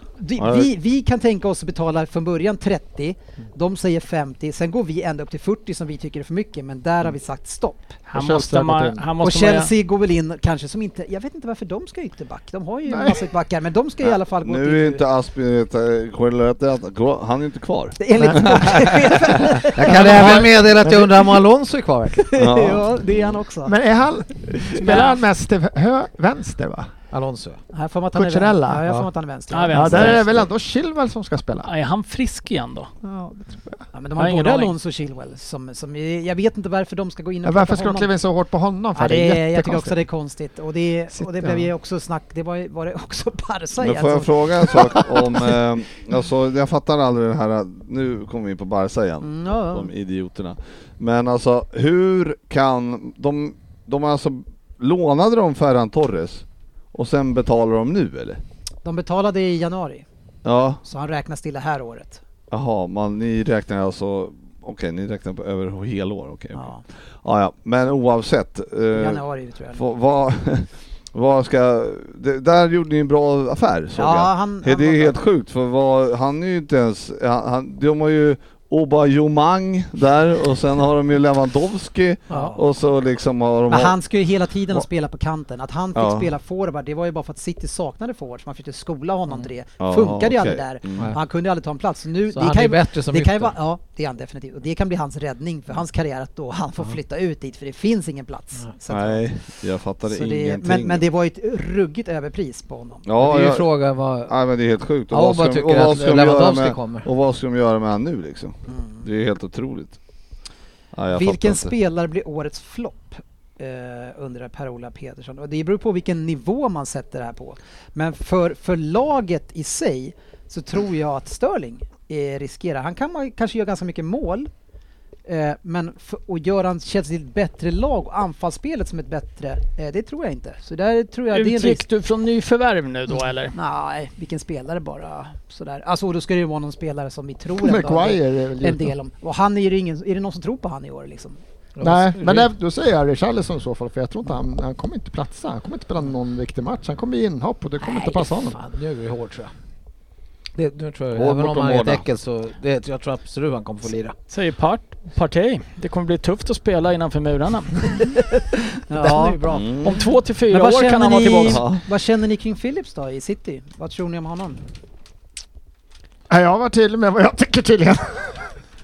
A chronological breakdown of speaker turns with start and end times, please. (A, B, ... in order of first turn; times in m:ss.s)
0:00.2-0:08.0 A
0:00.4-0:00.7 B
0:08.1-0:09.7 C
0:08.1-0:09.0 D
0:09.2-0:15.0 A
0:12.9-0:13.2 D
0:14.0-0:19.6 B
0:18.0-0:20.4 A
0:18.2-0:18.4 D
0:19.8-0:22.3 E
0:19.8-0:21.4 D
0:22.3-0:23.8 A
0:22.4-0:22.9 B
0:23.7-0:26.9 D
0:24.7-0:25.1 A
0:24.9-0:25.2 C
0:27.1-0:27.6 E
0:27.7-0:30.1 A
0:28.2-0:28.9 D
0:29.5-0:30.3 C
0:29.7-0:31.7 D
0:29.9-0:30.2 B
0:31.6-0:32.9 C
0:33.0-0:33.8 D
0:33.9-0:38.1 A
0:34.2-0:34.7 C
0:37.4-0:40.0 D
0:38.9-0:45.0 A
0:41.1-0:41.7 D
0:43.8-0:58.4 B
0:49.2-0:49.9 A
0:58.8-1:00.1 A
1:00.4-1:00.8 B
1:00.8-1:02.2 A
1:02.5-1:06.7 B
1:06.6-1:06.8 A
1:07.2-1:09.2 B
1:08.9-1:09.8 A
1:09.7-1:24.0 B
1:14.0-1:15.2 A
1:22.3-1:22.6 A
1:23.7-1:39.3 A
1:26.0-1:26.3 B
1:29.8-1:31.1 B
1:32.3-1:33.5 E
1:38.9-1:41.1 B
1:40.1-1:43.1 A
1:43.1-1:50.0 B
1:43.2-1:44.4 E
1:45.1-1:47.1 E
1:48.7-1:49.1 A
1:50.9-1:51.7 B
1:51.1-2:04.5 A
2:05.3-2:11.8 A
2:11.3-2:13.6 C
2:13.5-2:21.4 A
2:17.6-2:18.9 D
2:21.8-2:22.5 E
2:21.8-2:28.6 D
2:27.8-2:29.5 E
2:30.6-2:34.2 E
2:31.2-2:32.0 B
2:34.3-2:37.9 C
2:38.9-2:39.7 A
2:39.0-2:39.6 E
2:39.5-2:40.0 B
2:39.8-2:41.6 C
2:40.5-2:44.6 A
2:41.4-2:41.8 B
2:46.3-2:48.5 D